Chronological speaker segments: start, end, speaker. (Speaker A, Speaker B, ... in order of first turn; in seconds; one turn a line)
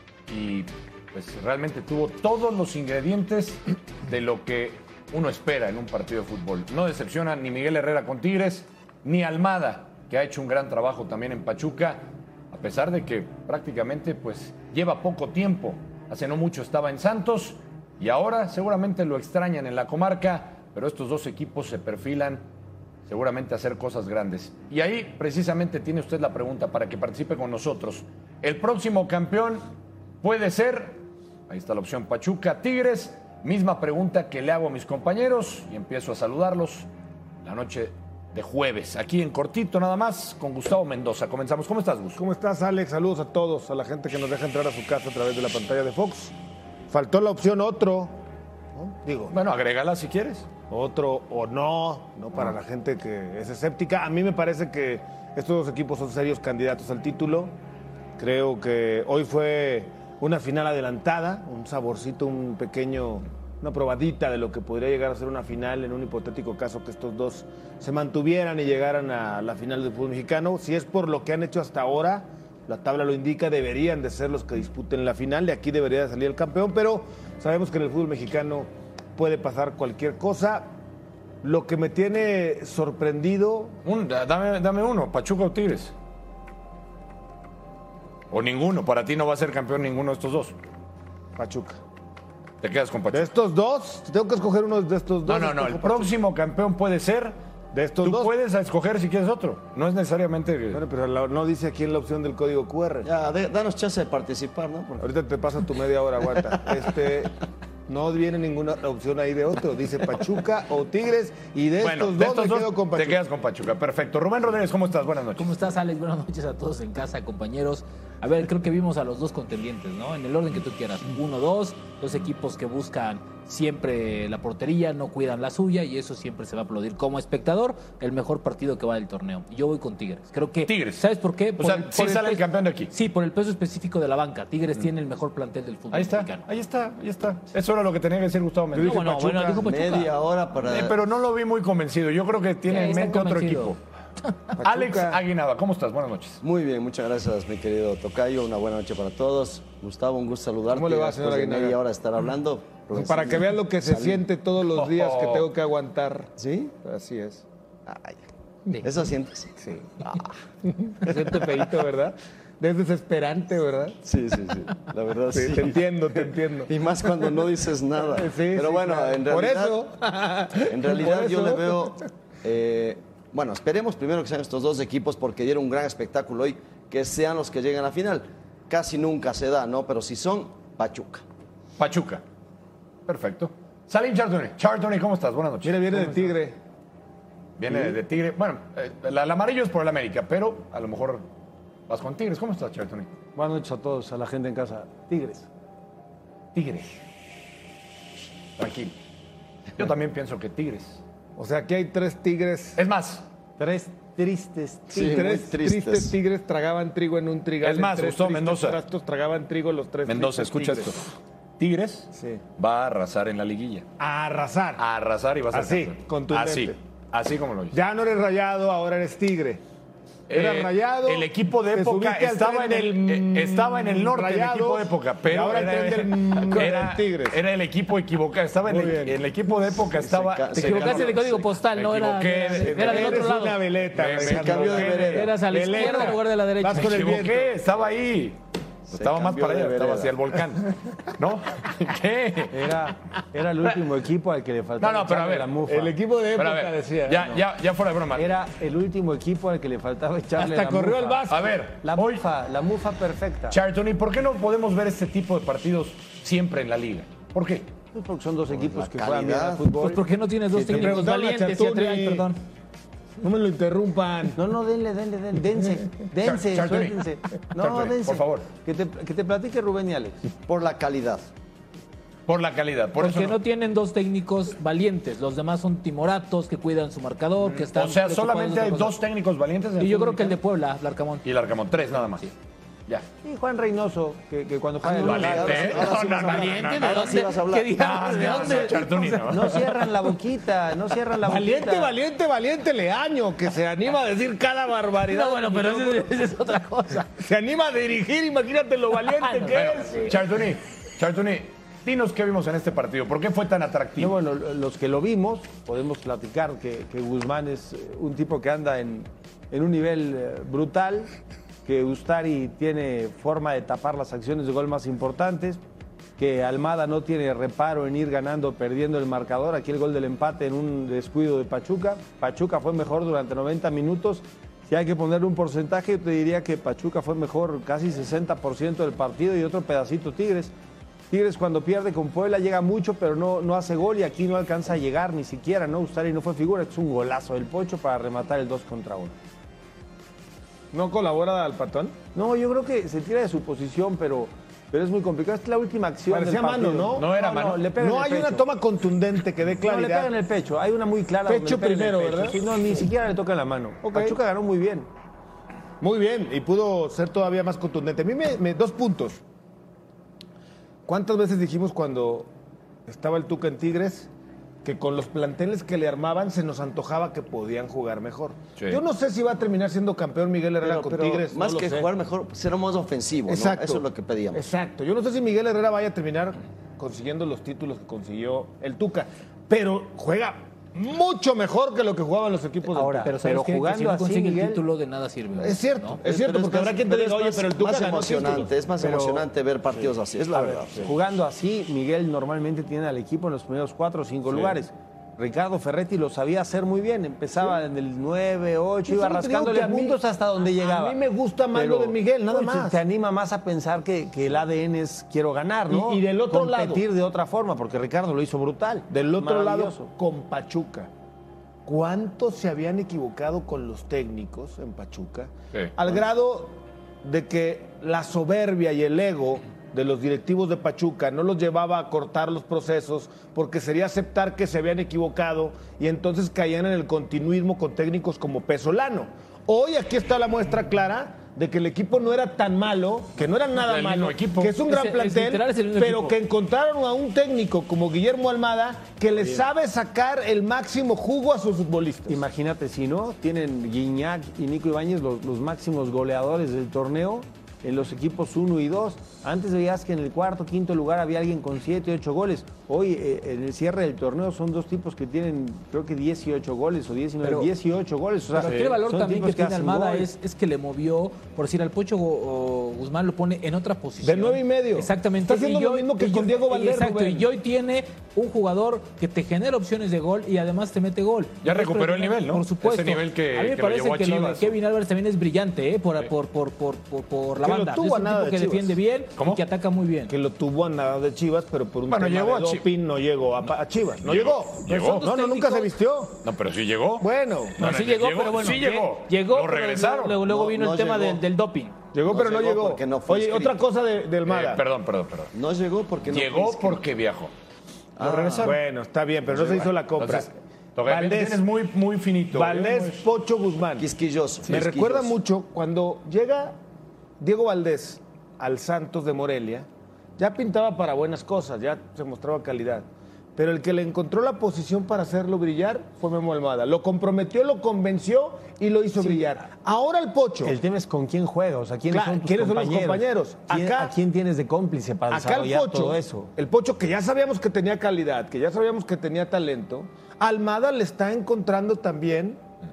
Speaker A: 0.3-22.4
Speaker A: 23.1-29.7
Speaker A: 30.2-36.9
Speaker A: 37.4-42.2
Speaker B: 42.2-46.3
Speaker B: 46.9-48.2
Speaker B: 48.8-49.4
Speaker A: 49.3-50.5
Speaker B: 50.7-57.5
Speaker B: 58.2-80.7
Speaker B: 81.4-83.8
Speaker A: 83.8-85.9
Speaker A: 88.3-90.5
Speaker B: 91.4-91.8
Speaker A: 92.6-93.3
Speaker B: 93.1-96.1
Speaker A: 95.3-97.4
Speaker B: 97.7-98.3
Speaker A: 98.0-100.8
Speaker B: 100.7-103.1
Speaker C: 103.0-105.0
Speaker B: 105.0-107.3
Speaker B: 107.9-113.2
Speaker A: 111.8-115.5
Speaker D: 115.4-136.4
Speaker A: 130.7-131.1
Speaker A: 131.6-132.9
Speaker A: 135.9-139.1
Speaker B: 138.7-139.8
Speaker D: 138.8-140.2
Speaker C: 139.6-141.0
Speaker A: 140.7-143.8
Speaker D: 142.7-143.7
Speaker B: 144.6-145.2
Speaker A: 144.6-146.4
Speaker C: 146.4-154.2
Speaker B: 150.7-151.8
Speaker B: 152.9-156.3
Speaker A: 154.7-155.5
Speaker C: 156.4-156.8
Speaker B: 156.8-157.4
Speaker C: 158.8-160.2
Speaker B: 159.7-160.0
Speaker B: 160.7-164.0
Speaker C: 161.1-161.4
Speaker C: 164.0-169.9
Speaker B: 165.3-166.7
Speaker B: 168.1-171.9
Speaker C: 170.7-181.2
Speaker A: 181.8-182.2
Speaker A: 183.1-186.0
Speaker B: 185.6-186.6
Speaker A: 187.6-191.2
Speaker A: 191.9-193.1
Speaker E: 193.3-195.5
Speaker A: 196.6-197.0
Speaker A: 198.6-198.9
Speaker A: 199.8-201.0
Speaker B: 201.4-202.8
Speaker A: 202.8-203.2
Speaker E: 203.6-205.1
Speaker C: 204.9-206.2
Speaker B: 204.9-210.9
Speaker A: 207.6-208.8
Speaker A: 210.1-211.1
Speaker A: 211.6-213.9
Speaker B: 212.1-212.4
Speaker B: 214.0-214.8
Speaker A: 214.8-217.8
Speaker B: 215.5-216.8
Speaker B: 217.7-219.6
Speaker A: 220.3-233.3
Speaker B: 220.3-227.4
Speaker B: 228.7-229.2
Speaker C: 229.9-231.4
Speaker D: 230.5-233.6
Speaker B: 232.6-237.6
Speaker A: 233.9-236.1
Speaker C: 234.2-235.6
Speaker D: 235.0-237.2
Speaker A: 236.7-242.8
Speaker C: 238.9-240.2
Speaker E: 242.5-245.9
Speaker A: 244.8-245.5
Speaker B: 245.7-247.3
Speaker A: 246.3-248.4
Speaker E: 248.1-253.6
Speaker B: 250.4-251.6
Speaker A: 251.3-252.2
Speaker A: 253.5-257.7
Speaker E: 257.9-261.1
Speaker C: 258.5-259.7
Speaker D: 259.8-262.4
Speaker B: 260.8-262.3
Speaker B: 263.2-264.4
Speaker E: 264.4-270.2
Speaker A: 266.2-267.0
Speaker A: 267.6-268.5
Speaker C: 270.4-271.3
Speaker A: 272.3-273.4
Speaker D: 273.0-279.0
Speaker A: 277.4-280.4
Speaker D: 279.8-281.3
Speaker A: 281.2-282.3
Speaker E: 283.2-285.9
Speaker C: 284.8-288.4
Speaker A: 285.0-289.9
Speaker D: 285.2-289.5
Speaker E: 289.3-292.0
Speaker B: 291.1-296.1
Speaker D: 295.1-297.1
Speaker B: 297.2-300.2
Speaker D: 299.2-300.2
Speaker A: 299.5-304.2
Speaker E: 304.0-311.1
Speaker E: 311.7-315.6
Speaker E: 316.2-330.5
Speaker E: 331.1-339.1
Speaker B: 340.7-342.0
Speaker E: 342.1-348.4
Speaker B: 346.1-347.2
Speaker A: 346.9-347.7
Speaker B: 347.8-350.1
Speaker E: 349.6-354.9
Speaker B: 351.3-352.4
Speaker B: 353.9-354.2
Speaker B: 355.8-359.2
Speaker B: 360.9-362.3
Speaker B: 362.9-364.1
Speaker B: 364.6-371.9
Speaker C: 370.6-374.5
Speaker B: 373.3-383.2
Speaker E: 382.7-384.6
Speaker D: 382.8-386.0
Speaker B: 385.4-388.5
Speaker C: 386.0-390.9
Speaker E: 388.8-389.3
Speaker E: 390.5-401.0
Speaker B: 398.9-400.0
Speaker B: 400.6-402.8
Speaker E: 401.5-409.9
Speaker B: 405.7-406.9
Speaker B: 408.9-410.9
Speaker B: 411.7-442.2
Speaker A: 433.5-434.6
Speaker D: 434.6-436.2
Speaker E: 442.1-460.1
Speaker D: 457.2-457.5
Speaker D: 458.3-480.1
Speaker A: 458.4-458.8
Speaker B: 464.0-467.3
Speaker A: 471.4-474.5
Speaker B: 477.4-478.8
Speaker A: 479.2-479.4
Speaker B: 480.1-486.2
Speaker A: 481.9-482.7
Speaker A: 484.0-485.1
Speaker D: 484.7-485.7
Speaker A: 486.2-490.2
Speaker B: 487.0-487.6
Speaker D: 487.6-491.8
Speaker C: 490.2-491.2
Speaker B: 491.9-494.6
Speaker C: 492.1-493.6
Speaker A: 494.3-495.3
Speaker C: 495.3-496.8
Speaker A: 496.1-497.3
Speaker C: 498.0-498.6
Speaker A: 498.0-498.6
Speaker B: 498.4-500.3
Speaker A: 499.3-503.1
Speaker B: 500.9-501.5
Speaker B: 502.3-503.9
Speaker C: 503.8-505.2
Speaker B: 504.4-506.6
Speaker B: 507.2-509.7
Speaker B: 510.2-520.6
Speaker E: 519.0-519.3
Speaker E: 520.4-526.3
Speaker B: 521.9-524.0
Speaker B: 525.1-532.4